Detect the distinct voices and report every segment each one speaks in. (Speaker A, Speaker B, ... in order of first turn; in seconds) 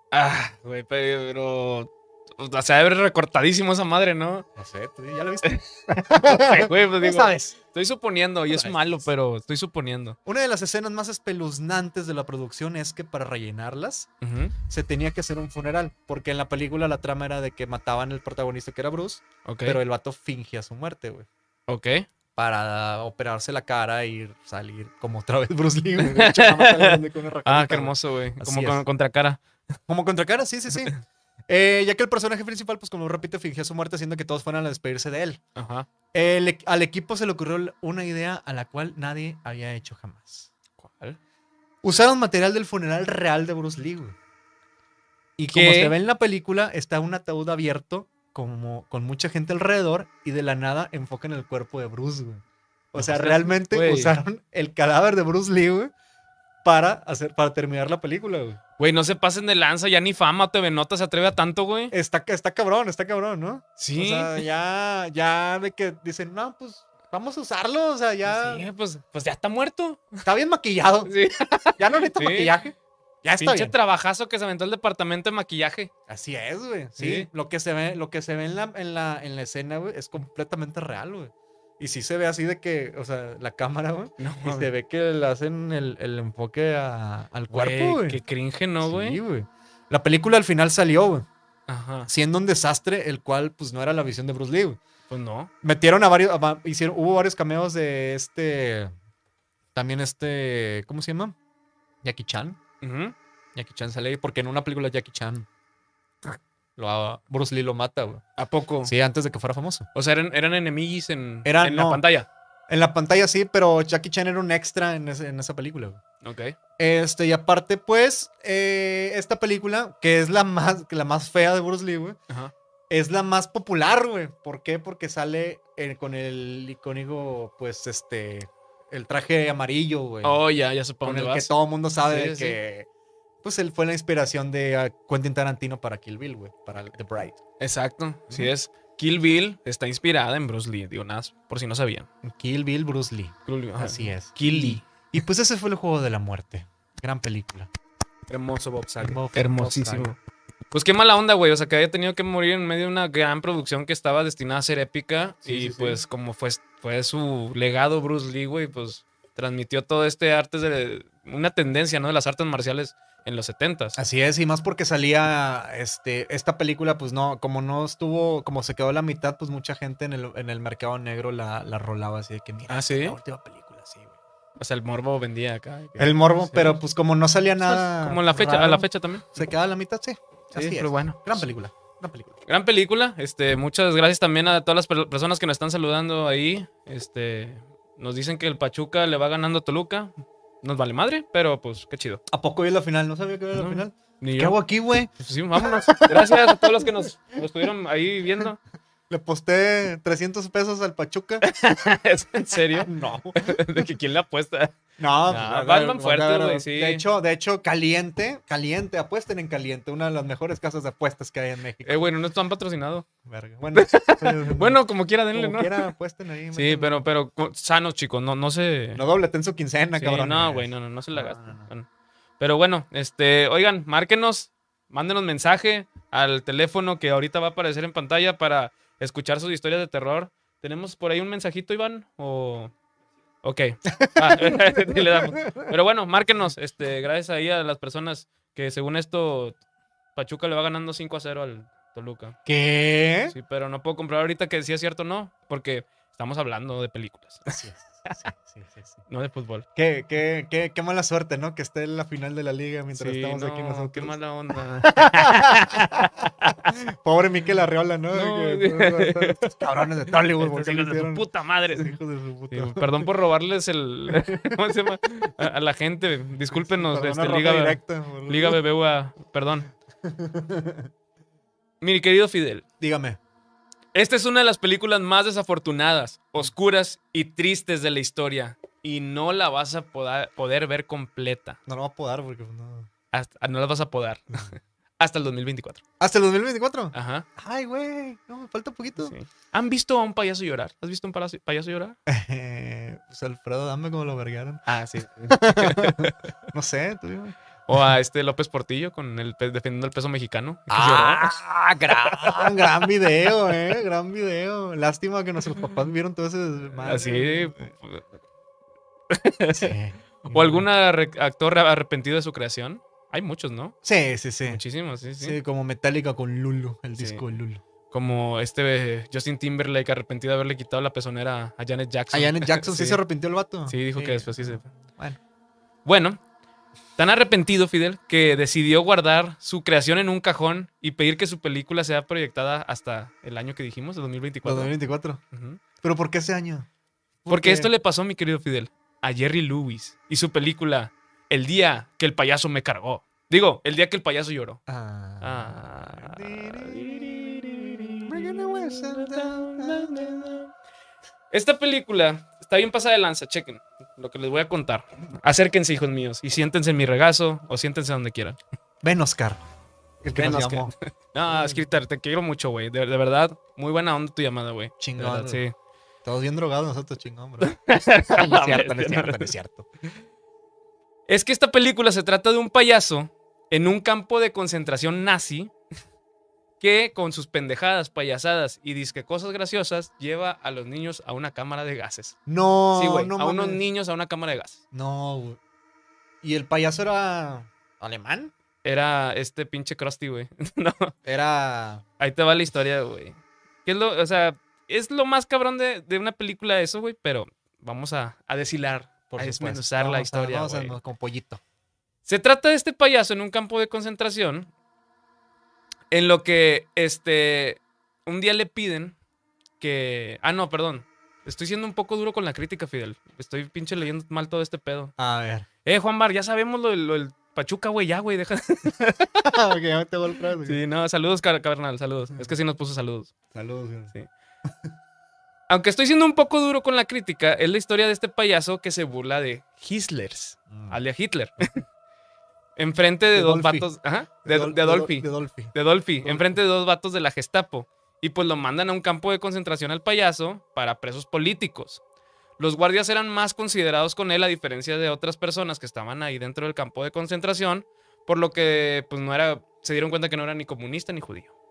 Speaker A: 0.1-4.5, 5.5-10.2, 14.2-14.6, 19.4-19.8, 21.7-22.1, 26.0-29.4, 35.6-35.9, 40.8-41.2, 45.5-45.9, 53.0-54.2, 58.8-62.0, 63.8-64.4, 68.3-70.2, 71.1-72.5, 73.4-75.9, 77.0-77.3, 84.2-84.7, 87.5-89.2, 91.7-92.1, 95.1-95.5, 102.8-103.2, 108.4-108.9, 110.0-112.3, 116.2-116.6, 130.2-131.5, 132.0-132.6, 137.6-142.1, 143.5-144.8, 148.3-150.2, 150.7-164.0, 172.7-173.2, 174.6-176.8, 177.6-179.3, 180.5-181.5, 182.5-192.2, 193.6-194.6, 195.2-198.6, 201.4-204.8, 205.3-207.1, 211.8-213.1, 213.7-215.9, 216.5-219.0, 220.0-221.9, 222.4-232.7, 233.4-239.6, 240.2-242.4, 243.3-247.6, 249.1-249.7, 253.0-256.8, 258.1-259.6, 260.4-262.0, 262.5-269.7, 271.8-272.6, 273.9-281.6, 283.1-285.8, 286.9-287.3, 289.0-292.0, 294.7-296.3, 297.7-302.6, 306.8-308.0, 309.1-309.7, 310.2-313.8, 314.5-315.4, 317.9-323.0, 323.7-324.6, 325.9-326.2, 327.0-334.7, 335.3-335.6, 337.3-344.6, 345.2-350.5, 351.3-358.4, 360.2-365.6, 367.4-369.3, 371.1-375.5, 376.6-382.2, 382.8-384.6, 388.6-390.9, 392.0-400.8, 402.1-404.5, 405.9-408.9, 409.6-414.9, 415.6-419.2, 420.4-423.1, 425.5-431.6, 432.6-441.8, 442.4-451.3
Speaker B: 4.6-7.6, 8.5-9.0, 10.3-14.1, 14.7-21.3, 22.4-28.8, 29.9-30.9, 31.5-35.4, 36.1-40.5, 41.8-44.2, 45.4-55.9, 56.6-58.6, 61.9-68.7, 70.2-71.1, 71.8-73.7, 76.1-88.2, 88.8-91.3, 92.1-94.8, 95.6-98.9, 99.8-101.3, 102.0-102.6, 103.5-105.5, 106.2-108.2, 108.8-109.9, 111.5-112.0, 112.7-116.0, 116.8-122.2, 122.9-130.4, 131.0-132.9, 133.4-137.4, 142.2-147.7, 149.0-150.2, 155.4-156.0, 164.0-174.2, 176.0-182.4, 192.3-197.1, 199.1-201.5, 202.8-203.9, 205.0-212.0, 213.2-214.8, 215.3-217.0, 218.9-221.7, 234.0-235.7, 242.5-243.3, 247.5-249.0, 249.8-254.2, 254.9-256.0, 256.9-263.1, 264.1-264.6, 266.5-268.6, 270.0-270.9, 272.8-273.2, 281.7-282.9, 286.0-289.1, 292.1-294.6, 295.3-297.4, 300.7-307.7, 309.5-310.6, 313.8-314.6, 315.2-317.6, 322.1-325.2, 334.4-335.2, 335.8-336.7, 337.2-337.7, 344.7-350.4, 358.8-359.4, 360.0-360.7, 361.3-361.6, 364.8-365.4, 366.0-367.6, 368.1-369.7, 382.3-383.6, 384.7-385.4, 386.2-388.3, 391.1-391.8, 399.1-401.4, 415.0-415.5, 419.2-420.6, 423.3-423.9, 430.5-430.8, 433.1-433.7, 434.2-436.4